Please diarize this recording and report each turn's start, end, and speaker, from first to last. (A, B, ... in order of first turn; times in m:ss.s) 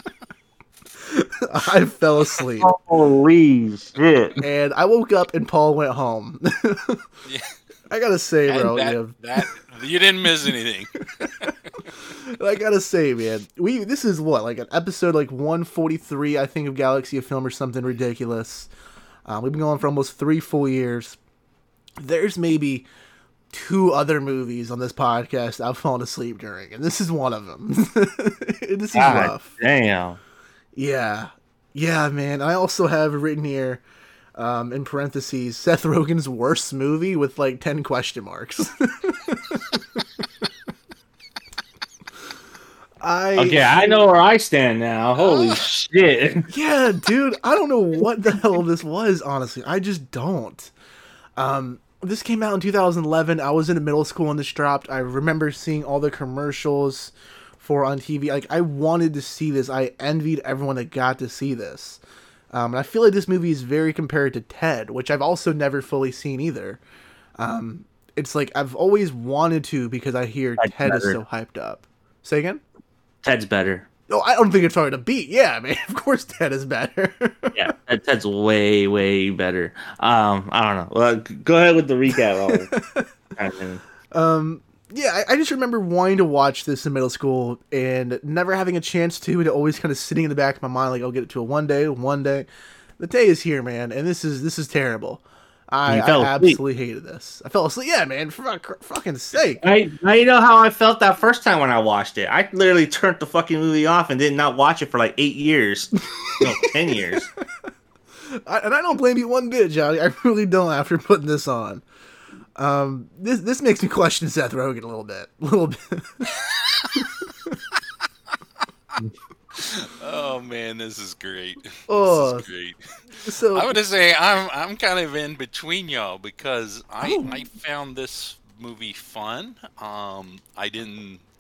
0:01.0-0:02.7 A
0:02.6-0:04.4 B
0:04.4-0:07.0 A
0:07.9-0:09.5 A
0:08.5-0:11.0 C
0:11.2-0:18.7 A
0:19.3-0:21.2 A
0:22.0-0:22.9 A
0:23.5-0:29.6 A
0:28.9-0:30.2 B
0:30.8-0:33.8 A
0:34.4-0:40.0 A
0:43.0-0:43.8 A
0:43.4-0:46.5 B
0:46.5-0:50.7 A
0:51.4-1:02.0 A
1:02.5-1:06.8 A
1:07.4-1:12.6 A
1:10.6-1:11.2 B
1:13.2-1:13.9 B
1:14.1-1:17.7 A
1:17.5-1:22.7 B
1:22.5-1:23.1 A
1:23.4-1:23.8 B
1:24.1-1:32.5 A
1:33.0-1:39.6 A
1:35.9-1:36.6 B
1:39.6-1:47.3 B
1:48.4-1:51.8 A
1:52.6-1:56.3 A
1:57.0-1:57.6 A
1:59.6-2:02.8 C
2:01.9-2:02.5 A
2:03.2-2:03.7 A
2:03.5-2:11.2 C
2:07.0-2:07.4 A